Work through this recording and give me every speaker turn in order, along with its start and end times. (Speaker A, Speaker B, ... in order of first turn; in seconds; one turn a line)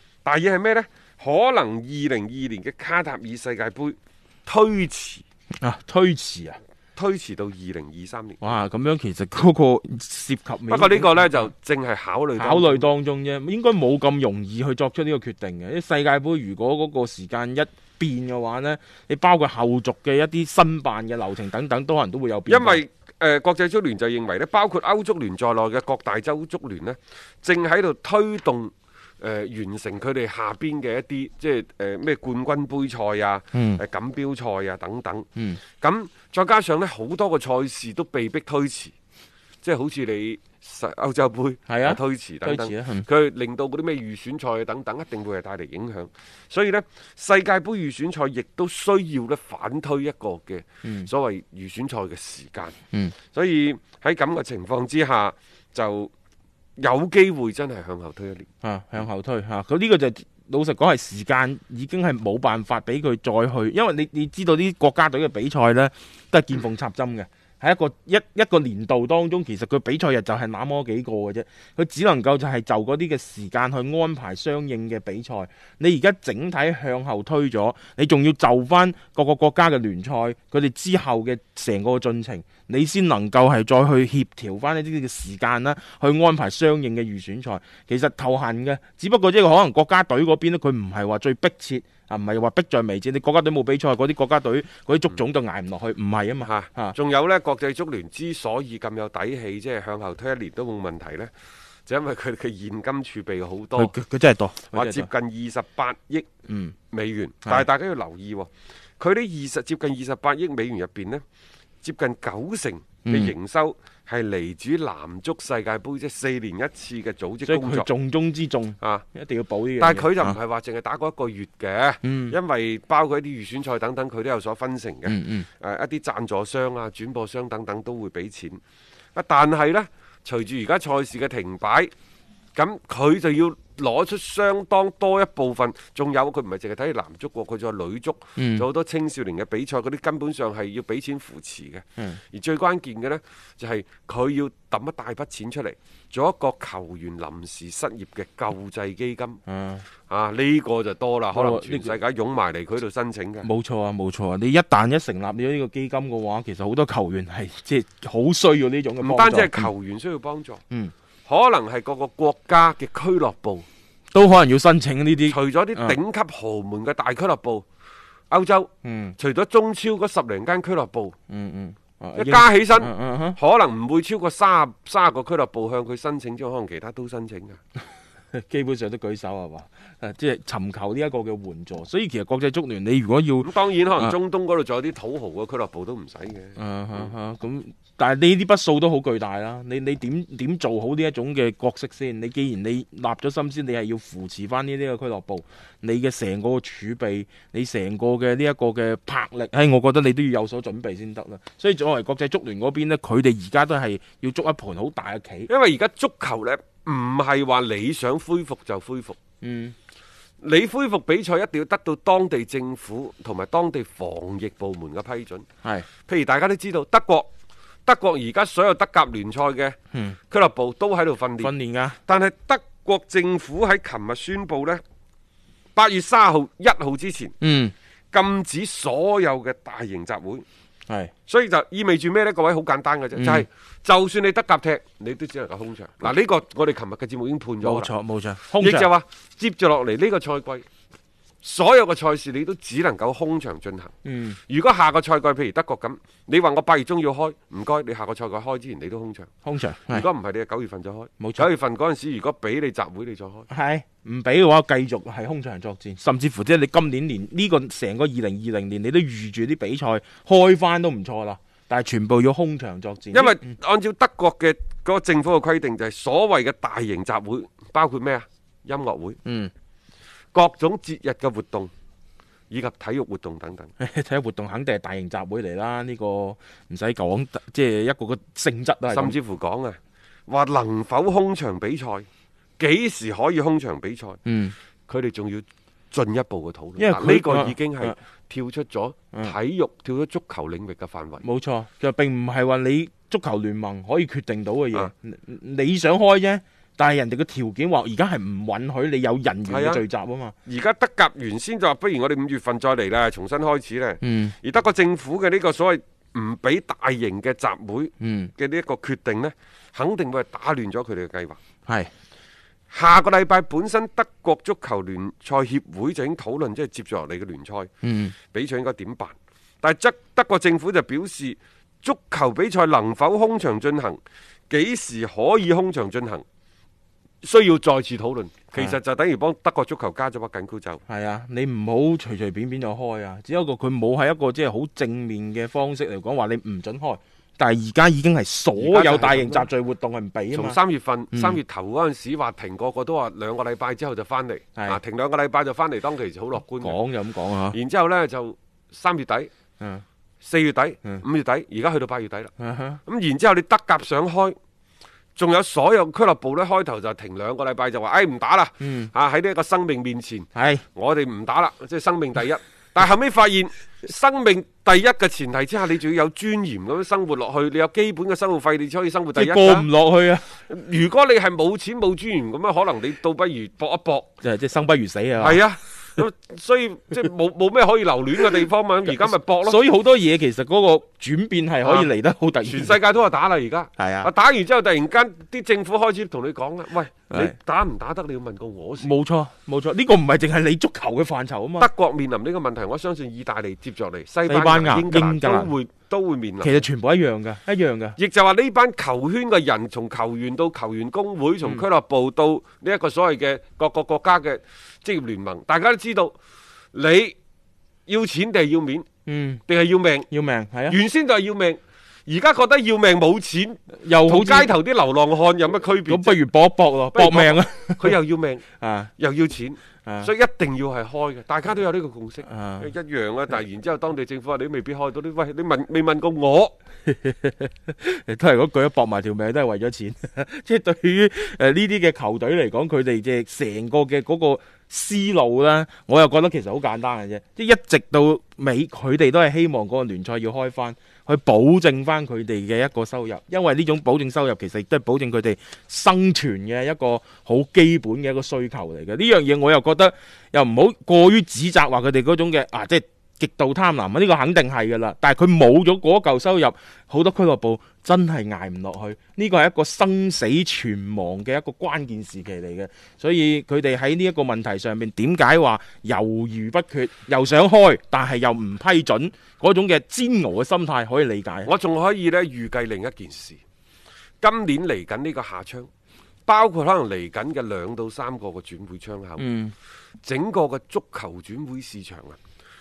Speaker A: 0.2-5.2
Speaker B: 5.6-6.6
Speaker A: 7.0-8.6
Speaker B: 8.4-11.5
Speaker A: 10.7-12.9
Speaker B: 12.4-22.8
Speaker A: 22.4-38.9
Speaker B: 33.5-33.8
Speaker A: 39.6-56.1
Speaker B: 41.7-43.1
Speaker B: 50.8-51.1
Speaker A: 56.8-58.5
Speaker B: 58.6-96.9
Speaker A: 96.4-101.3
Speaker A: 101.8-103.9
Speaker B: 103.7-105.1
Speaker A: 104.6-106.3
Speaker B: 106.5-106.7
Speaker A: 106.9-111.2
Speaker A: 111.8-117.9
Speaker B: 113.0-113.3
Speaker B: 117.4-120.3
Speaker A: 118.8-119.1
Speaker A: 119.8-128.6
Speaker B: 122.0-122.4
Speaker B: 125.0-125.5
Speaker A: 129.1-131.9
Speaker A: 132.5-149.4
Speaker B: 138.4-138.7
Speaker B: 149.5-149.8
Speaker A: 150.1-153.5
Speaker B: 151.3-151.9
Speaker B: 153.4-159.7
Speaker A: 159.0-160.6
Speaker A: 161.2-163.7
Speaker B: 164.1-166.0
Speaker A: 165.2-167.6
Speaker A: 168.3-171.1
Speaker B: 168.8-169.2
Speaker B: 171.3-173.4
Speaker A: 172.1-177.6
Speaker B: 178.3-184.1
Speaker A: 183.4-187.1
Speaker B: 186.6-205.5
Speaker A: 205.5-209.2
Speaker B: 209.4-209.7
Speaker A: 210.4-217.3
Speaker A: 217.8-224.8
Speaker B: 221.4-222.0
Speaker A: 225.7-227.4
Speaker B: 227.4-227.7
Speaker A: 228.1-230.4
Speaker A: 231.2-237.9
Speaker B: 233.2-233.4
Speaker B: 237.6-238.9
Speaker A: 238.5-240.7
Speaker A: 241.4-249.3
Speaker B: 244.0-244.4
Speaker B: 249.4-250.1
Speaker A: 249.9-253.5
Speaker B: 251.2-251.5
Speaker B: 253.5-263.5
Speaker A: 263.1-269.2
Speaker B: 269.2-269.5
Speaker A: 270.3-271.7
Speaker A: 272.5-273.7
Speaker B: 273.8-279.2
Speaker A: 278.9-282.1
Speaker A: 282.6-284.2
Speaker B: 284.2-284.5
Speaker A: 284.9-291.2
Speaker B: 286.8-288.0
Speaker B: 291.2-300.3
Speaker A: 299.4-299.8
Speaker A: 300.4-311.4
Speaker B: 304.0-304.3
Speaker B: 308.0-308.3
Speaker A: 312.7-326.2
Speaker B: 317.8-318.1
Speaker A: 327.2-330.8
Speaker B: 330.9-340.6
Speaker A: 338.5-339.5
Speaker A: 340.3-346.8
Speaker B: 341.1-341.4
Speaker B: 346.5-347.6
Speaker A: 347.5-349.3
Speaker A: 350.2-352.3
Speaker B: 352.4-352.8
Speaker A: 352.8-354.4
Speaker A: 355.1-369.7
Speaker B: 358.6-358.9
Speaker B: 360.3-360.6
Speaker B: 369.1-370.3
Speaker A: 370.3-374.1
Speaker B: 374.2-375.4
Speaker A: 375.2-379.6
Speaker B: 378.9-382.8
Speaker A: 381.6-388.9
Speaker B: 383.8-384.1
Speaker B: 387.1-387.4
Speaker B: 388.8-391.7
Speaker A: 391.6-396.7
Speaker B: 394.3-395.5
Speaker B: 396.4-397.9
Speaker A: 397.9-406.1
Speaker A: 406.7-407.2
Speaker A: 407.9-408.9
Speaker B: 409.1-409.4
Speaker A: 409.4-410.1
Speaker B: 410.1-410.8
Speaker A: 410.7-416.2
Speaker B: 413.8-414.5
Speaker B: 415.9-418.0
Speaker A: 416.8-418.4
Speaker B: 418.6-418.9
Speaker A: 418.9-426.5
Speaker B: 422.2-422.7
Speaker B: 426.9-471.5
Speaker A: 471.4-473.4
Speaker A: 474.2-475.7
Speaker A: 476.2-479.3
Speaker B: 479.2-479.5
Speaker A: 480.0-482.2